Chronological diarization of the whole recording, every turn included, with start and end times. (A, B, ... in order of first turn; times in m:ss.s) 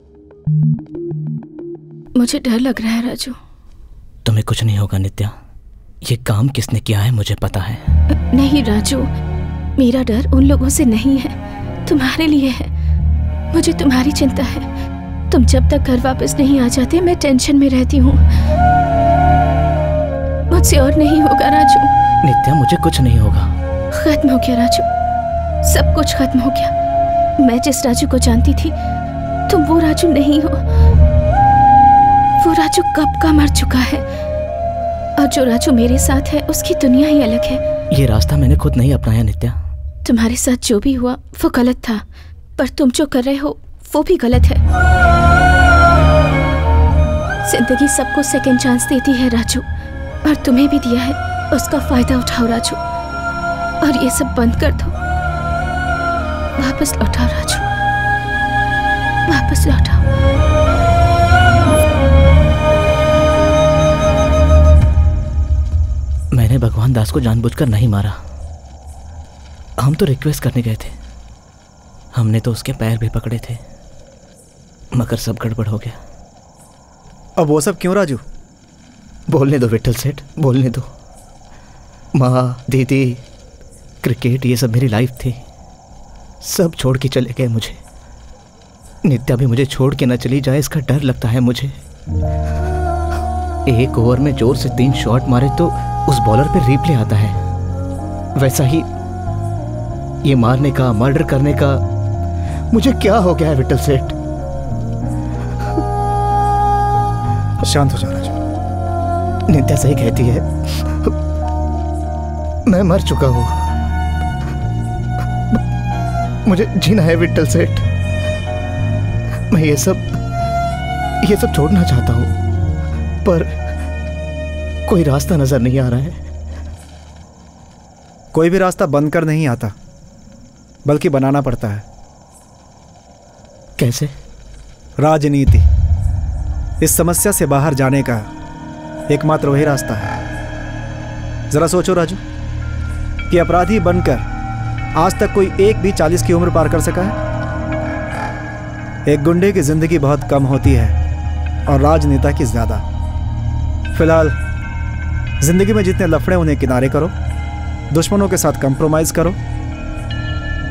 0:02.1-0:03.4 A
0:04.2-0:05.3 B
0:06.0-0:07.8 B
0:08.1-0:09.1 A
0:09.8-0:12.7 A
0:13.5-0:14.7 A
0:15.3-0:18.2 A
0:20.5-0:21.9 A
0:22.2-0:23.5 B
0:23.9-0:24.9 A
0:25.6-0:26.7 A
0:27.4-0:28.7 A
0:29.5-0:30.6 A
0:32.4-0:34.0 A
0:35.2-0:37.6 A
0:37.9-0:39.6 B
0:40.0-0:42.0 A
0:42.6-0:44.6 A
0:47.4-0:49.7 A
0:50.2-0:52.8 A
0:53.8-0:54.9 A
0:56.6-0:57.7 A
0:59.2-1:00.0 A
1:06.3-1:08.2 B
1:09.8-1:11.0 B
1:12.1-1:13.6 B
1:14.9-1:16.0 B
1:17.4-1:18.2 C
1:19.3-1:20.9 B
1:22.1-1:23.2 B
1:24.0-1:25.4 B
1:26.4-1:27.8 B
1:29.0-1:31.7 B
1:33.6-1:37.4 B
1:38.4-1:38.9 B
1:40.2-1:41.8 B
1:42.7-1:44.1 B
1:47.6-1:48.4 C
1:49.5-1:51.1 B
1:52.6-1:53.6 B
1:56.4-1:57.8 B
1:59.5-2:00.1 B
2:01.2-2:02.3 B
2:03.2-2:03.6 B
2:04.9-2:06.2 B
2:08.3-2:09.7 C
2:10.8-2:11.8 C
2:13.8-2:14.1 B
2:15.0-2:15.6 C
2:16.8-2:18.3 C
2:19.1-2:20.1 C
2:21.5-2:22.2 C
2:23.3-2:24.2 C
2:25.0-2:27.2 C
2:29.1-2:31.0 C
2:31.7-2:32.8 C
2:33.9-2:34.4 C
2:35.4-2:37.1 C
2:37.9-2:39.4 C